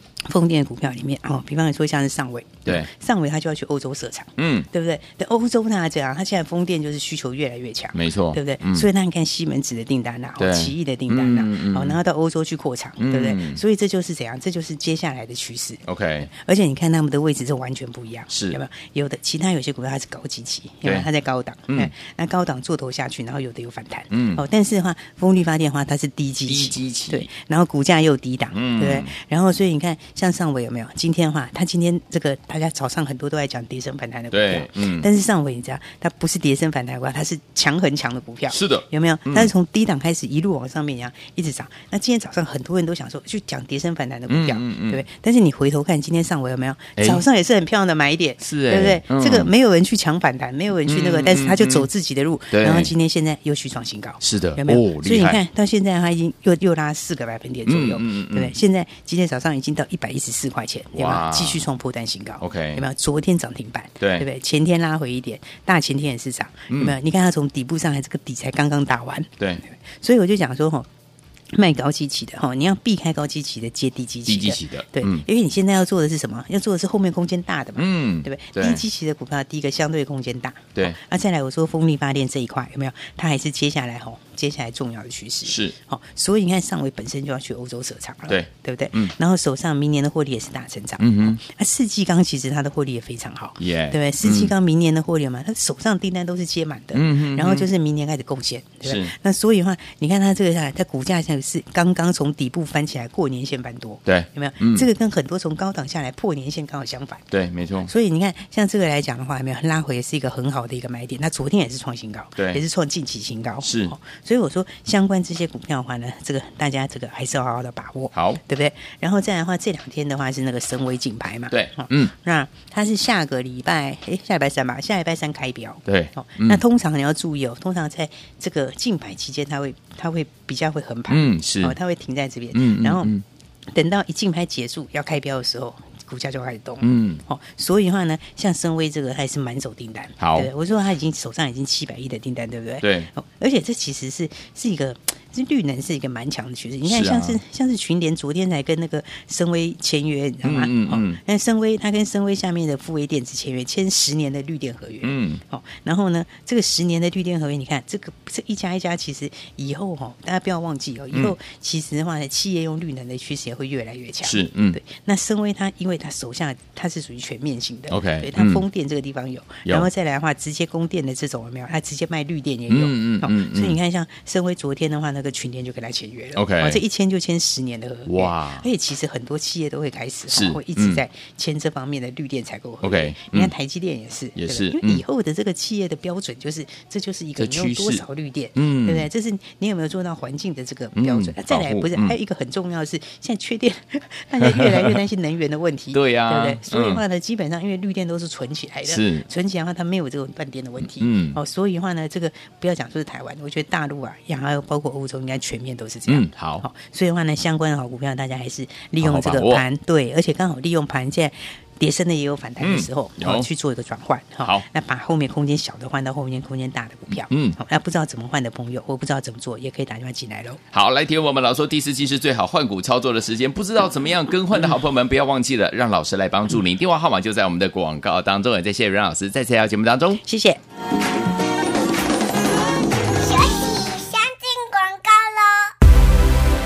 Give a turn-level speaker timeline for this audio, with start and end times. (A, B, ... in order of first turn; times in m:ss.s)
0:00.3-1:10.9 A
0:04.4-0:04.7 B
0:07.9-0:08.9 B
0:10.4-0:12.0 B
0:13.0-0:13.6 B
0:15.9-0:16.3 B
0:18.3-0:18.6 B
0:24.1-0:24.4 B
0:26.4-0:27.3 B
0:28.5-0:29.1 B
0:34.3-0:35.1 B
0:38.5-0:39.5 B
0:44.3-0:45.0 B
0:47.0-0:47.2 B
0:48.4-0:49.5 B
0:50.9-0:51.9 B
0:52.5-0:52.9 B
0:54.2-0:55.4 B
0:57.6-0:58.5 B
1:00.9-1:01.6 B
1:02.4-1:02.8 B
1:04.0-1:04.3 B
1:06.7-1:06.9 B
1:11.5-1:47.3 A
1:14.3-1:15.3 B
1:17.8-1:18.8 B
1:25.4-1:25.8 B
1:28.3-1:29.1 B
1:31.0-1:31.4 B
1:33.6-1:34.5 B
1:36.9-1:37.7 B
1:38.8-1:39.1 B
1:44.1-1:44.9 B
1:47.3-1:47.9 B
1:47.8-2:13.1 A
1:52.4-1:52.6 B
1:53.6-1:53.9 B
1:58.1-1:58.4 B
2:01.5-2:02.1 B
2:05.9-2:06.6 B
2:11.1-2:11.8 B
2:12.5-2:13.2 B
2:13.7-3:40.6 A
2:16.8-2:17.2 B
2:20.2-2:20.5 B
2:22.8-2:23.1 B
2:26.8-2:27.4 B
2:30.4-2:31.2 B
2:35.0-2:35.4 B
2:44.2-2:44.8 B
2:47.9-2:48.6 B
2:52.7-2:53.8 B
2:56.4-2:56.8 B
2:58.1-2:58.6 B
3:00.3-3:01.0 B
3:02.8-3:03.5 B
3:04.4-3:05.0 B
3:07.4-3:09.1 B
3:11.0-3:12.2 B
3:14.4-3:15.0 B
3:15.9-3:17.0 B
3:18.8-3:19.3 B
3:20.8-3:21.4 B
3:26.1-3:26.6 B
3:29.0-3:29.6 B
3:32.6-3:33.5 B
3:37.1-3:37.6 B
3:40.7-3:50.2 B
3:50.2-3:50.6 A
3:53.1-3:55.7 C